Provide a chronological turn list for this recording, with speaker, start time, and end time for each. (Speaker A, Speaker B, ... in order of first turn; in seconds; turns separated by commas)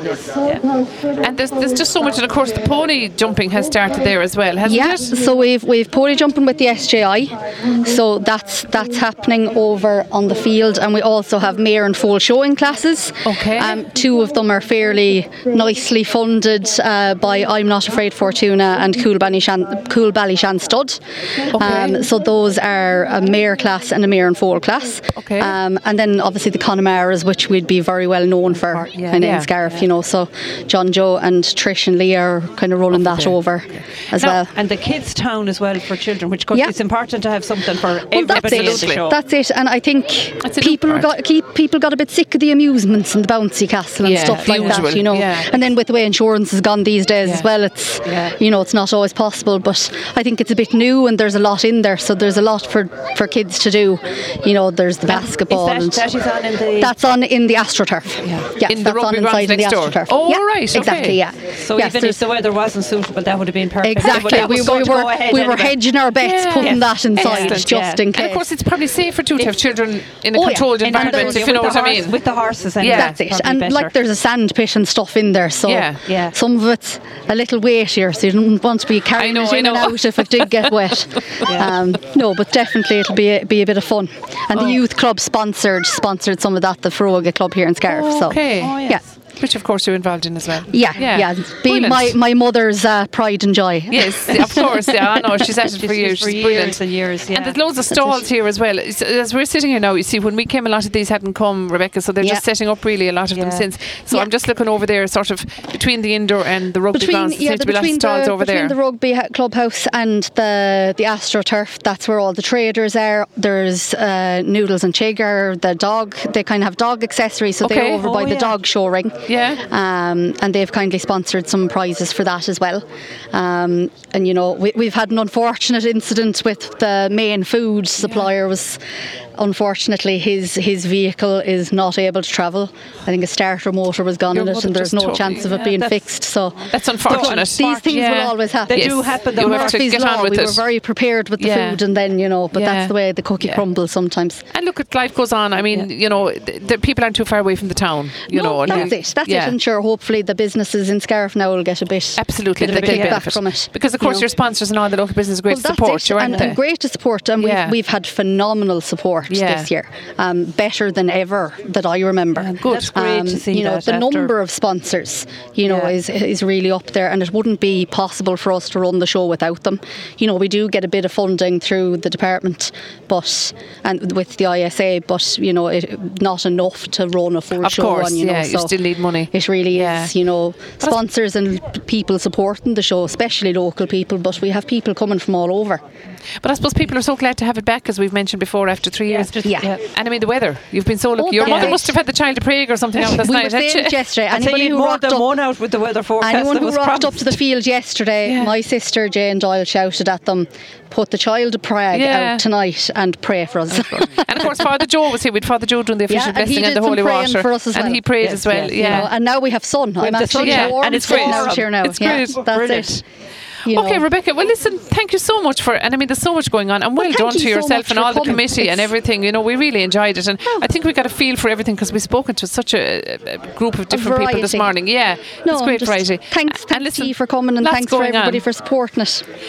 Speaker A: 1.2-5.2, Speaker B: 4.7-21.0, Speaker A: 13.2-13.8, Speaker A: 21.5-22.0, Speaker B: 21.5-34.6, Speaker A: 25.1-25.5, Speaker C: 28.6-29.2, Speaker A: 29.1-29.5, Speaker A: 33.0-33.3, Speaker C: 34.5-39.2, Speaker B: 38.1-56.1, Speaker A: 38.3-39.0, Speaker A: 40.4-41.1, Speaker A: 44.0-45.6, Speaker C: 44.2-44.9, Speaker C: 48.0-48.4, Speaker C: 55.1-57.0, Speaker B: 56.8-62.3, Speaker C: 58.2-58.5, Speaker A: 58.7-61.2, Speaker C: 61.6-65.8, Speaker B: 63.8-68.5, Speaker A: 66.2-72.2, Speaker C: 66.6-68.0, Speaker B: 70.3-71.6, Speaker C: 70.8-73.9, Speaker A: 72.8-73.2, Speaker B: 72.9-89.0, Speaker A: 75.7-76.0, Speaker C: 76.0-76.3, Speaker A: 79.2-80.9, Speaker C: 81.4-81.8, Speaker A: 87.9-88.8, Speaker C: 88.6-89.0, Speaker A: 89.4-92.2, Speaker B: 90.7-95.0, Speaker A: 93.9-108.8, Speaker C: 95.7-97.6, Speaker B: 97.9-98.2, Speaker C: 103.3-103.7, Speaker B: 106.9-128.8, Speaker A: 117.6-118.1, Speaker C: 117.9-118.6, Speaker A: 119.3-119.6, Speaker B: 129.4-144.4, Speaker A: 134.3-135.7, Speaker C: 135.4-136.1, Speaker A: 136.7-140.6, Speaker C: 137.1-138.0, Speaker C: 138.7-140.0, Speaker A: 141.4-141.8, Speaker A: 142.5-143.6, Speaker A: 144.5-149.6, Speaker B: 148.3-154.3, Speaker A: 152.2-156.6, Speaker C: 152.6-153.3, Speaker B: 155.5-178.8, Speaker A: 157.4-157.8, Speaker A: 159.3-159.7, Speaker C: 162.3-164.3, Speaker A: 162.6-162.9, Speaker A: 165.7-165.9, Speaker A: 177.6-180.1, Speaker B: 179.3-185.8, Speaker A: 186.4-194.0, Speaker C: 189.1-189.8, Speaker B: 189.4-189.7, Speaker B: 191.2-191.9, Speaker C: 191.4-191.8, Speaker B: 193.2-195.3, Speaker C: 194.3-197.4, Speaker B: 196.2-204.7, Speaker A: 198.2-198.5, Speaker A: 201.9-202.4, Speaker A: 203.7-209.1, Speaker B: 206.1-208.0, Speaker C: 208.2-209.1, Speaker B: 208.8-213.0, Speaker C: 210.0-213.0, Speaker A: 210.3-212.4, Speaker B: 213.7-214.1, Speaker A: 213.7-228.4, Speaker B: 217.0-218.9, Speaker B: 223.9-224.7, Speaker B: 225.4-229.2